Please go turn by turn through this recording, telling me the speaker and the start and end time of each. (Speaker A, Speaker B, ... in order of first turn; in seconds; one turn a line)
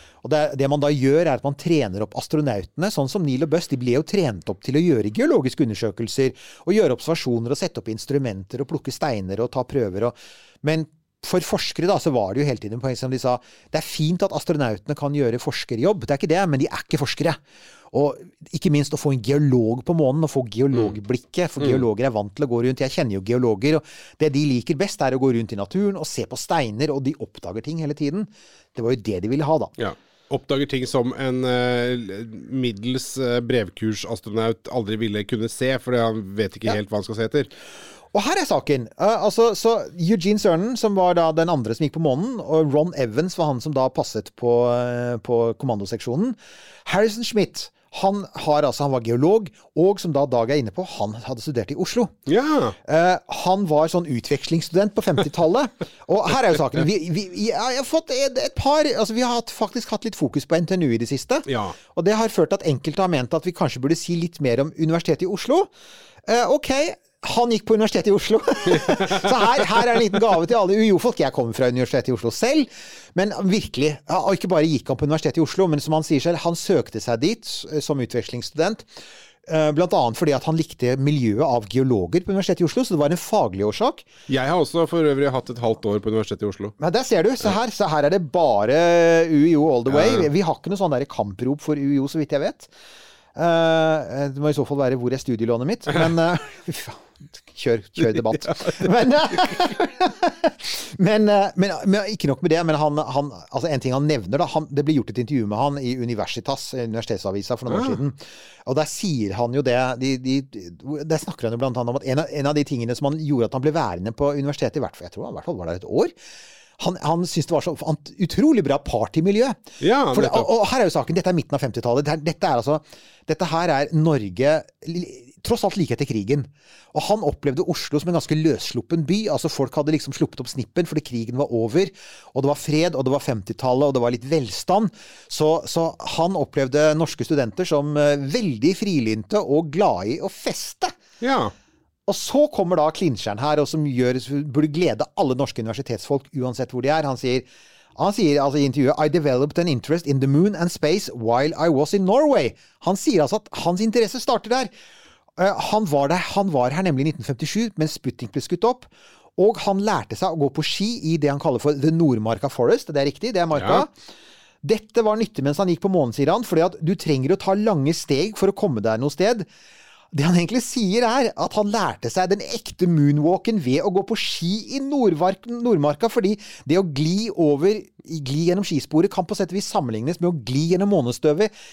Speaker A: 0.2-17.4
Speaker A: 17.9-29.7
Speaker B: 29.8-37.5
Speaker A: 38.1-52.1
Speaker B: 52.3-52.8
Speaker A: 52.9-65.7
Speaker B: 61.5-61.8
Speaker A: 66.3-78.8
Speaker B: 68.7-69.8
Speaker A: 79.5-84.1
Speaker B: 84.3-86.8
Speaker A: 86.8-92.7
Speaker B: 89.9-90.3
Speaker A: 93.4-116.1
Speaker B: 98.1-98.9
Speaker B: 107.7-108.0
Speaker A: 116.8-140.9
Speaker B: 119.8-120.5
Speaker B: 141.2-141.5
Speaker A: 142.1-154.7
Speaker A: 155.4-163.9
Speaker B: 163.6-163.8
Speaker A: 164.6-169.5
Speaker A: 170.1-181.5